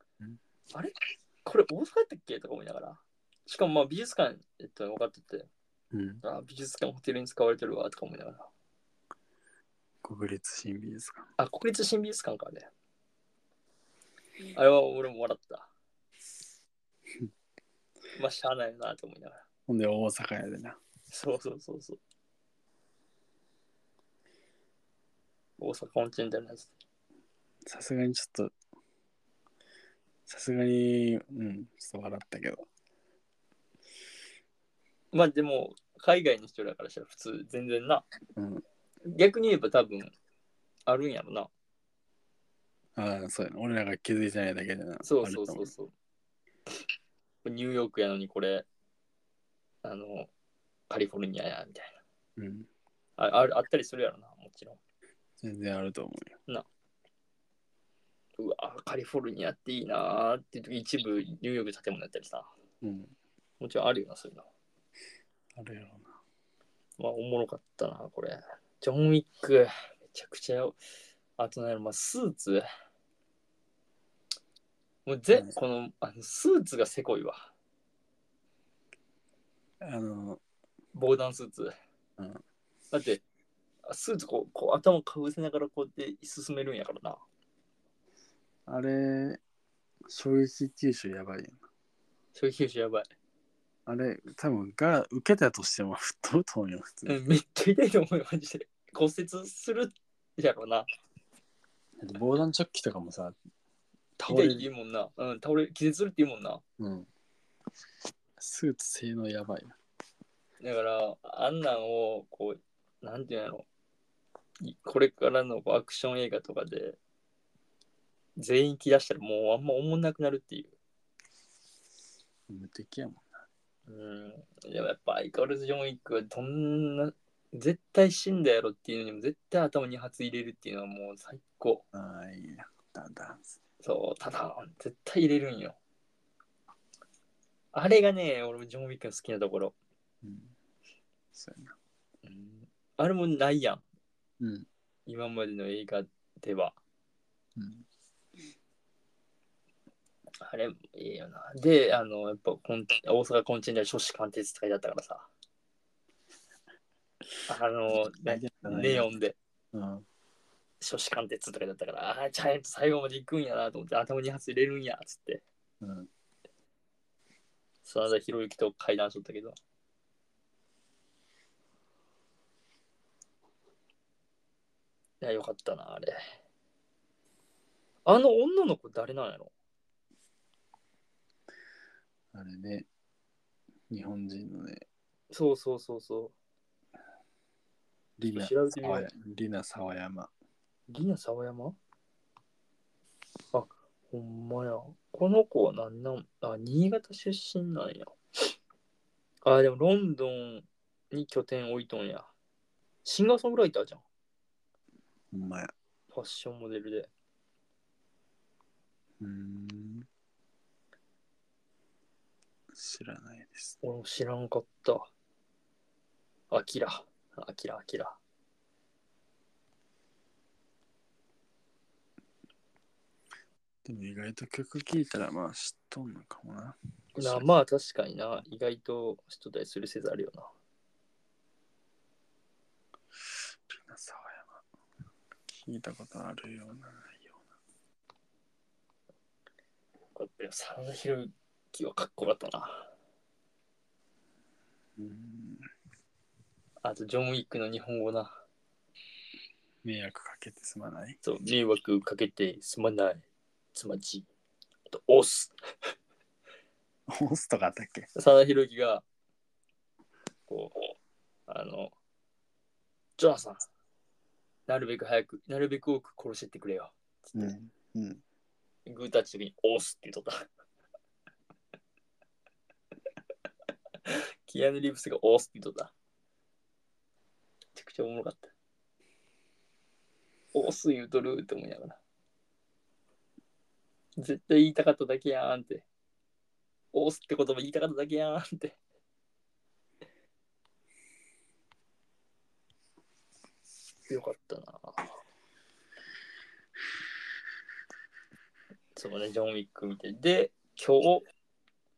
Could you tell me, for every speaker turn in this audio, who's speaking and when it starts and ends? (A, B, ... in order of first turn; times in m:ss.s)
0:01.4-0:05.5 A
0:05.9-0:06.2 B
0:06.2-0:08.5 A
0:10.0-0:11.3 B
0:11.4-0:12.7 A
0:14.5-0:15.7 A
0:18.2-0:19.4 A
0:19.7-0:20.8 B
0:21.1-0:22.0 A
0:25.6-0:26.7 A
0:27.7-0:28.5 B
0:30.3-0:32.6 B
0:35.1-0:38.1 A
0:38.4-0:38.6 B
0:39.1-0:40.1 A
0:40.9-0:41.5 A
0:43.0-0:45.7 B
0:45.0-0:45.9 A
0:47.4-0:48.6 A
0:49.8-0:50.3 A
0:50.9-0:52.0 A
0:52.4-0:52.7 B
0:53.2-0:54.8 A
0:55.4-0:56.4 B
0:58.4-1:02.5 A
1:02.8-1:03.1 B
1:03.6-1:04.5 A
1:05.6-1:06.1 B
1:07.0-1:10.8 A
1:11.4-1:12.7 A
1:15.1-1:17.5 A
1:19.8-1:20.4 B
1:20.9-1:21.7 A
1:22.9-1:23.2 A
1:23.9-1:27.2 A
1:28.7-1:29.4 B
1:30.1-1:31.6 B
1:32.4-1:33.1 A
1:33.9-1:37.2 B
1:37.1-1:40.9 A
1:42.0-1:43.4 B
1:44.2-1:44.7 B
1:44.3-1:46.6 A
1:46.8-1:47.1 B
1:48.4-1:49.8 B
1:50.6-1:53.7 A
1:54.6-1:57.0 A
1:58.4-2:00.7 A
2:02.5-2:03.3 B
2:03.9-2:11.8 A
2:11.9-2:13.6 B
2:13.8-2:15.8 A
2:17.7-2:19.8 A
2:20.2-2:20.6 B
2:21.3-2:21.8 B
2:22.2-2:23.8 A
2:24.4-2:24.7 B
2:25.1-2:26.8 A
2:27.6-2:27.9 B
2:30.4-2:35.3 A
2:37.5-2:39.4 A
2:37.9-2:39.1 B
2:39.7-2:40.1 B
2:40.8-2:45.4 A
2:45.8-2:46.1 B
2:47.8-2:49.6 A
2:55.2-2:56.2 A
2:58.0-2:59.5 A
3:02.3-3:02.9 B
3:03.9-3:04.8 B
3:05.3-3:06.3 A
3:08.2-3:10.3 B
3:08.3-3:09.1 A
3:10.9-3:11.8 A
3:13.5-3:18.2 A
3:19.4-3:22.3 A
3:23.0-3:24.0 A
3:25.3-3:25.7 B
3:26.1-3:27.1 A
3:29.2-3:30.1 B
3:32.7-3:33.8 B
3:33.8-3:35.1 A
3:36.5-3:38.2 A
3:43.8-3:47.5 B
3:47.2-3:50.5 A
3:53.3-3:54.6 B
3:55.6-3:57.4 B
4:00.2-4:02.9 A
4:05.0-4:05.7 B
4:06.8-4:08.4 A
4:09.8-4:11.2 B
4:11.2-4:14.3 A
4:14.9-4:15.5 A
4:17.1-4:18.1 B
4:18.2-4:19.0 A
4:20.5-4:20.9 A
4:21.5-4:21.9 A
4:23.2-4:23.6 A
4:24.7-4:27.5 A
4:27.3-4:28.2 B
4:28.9-4:30.4 A
4:34.1-4:35.9 A
4:37.8-4:38.5 A
4:40.5-4:42.0 A
4:44.2-4:45.9 A
4:46.9-4:48.8 A
4:54.1-4:55.0 A
4:59.0-5:01.2 A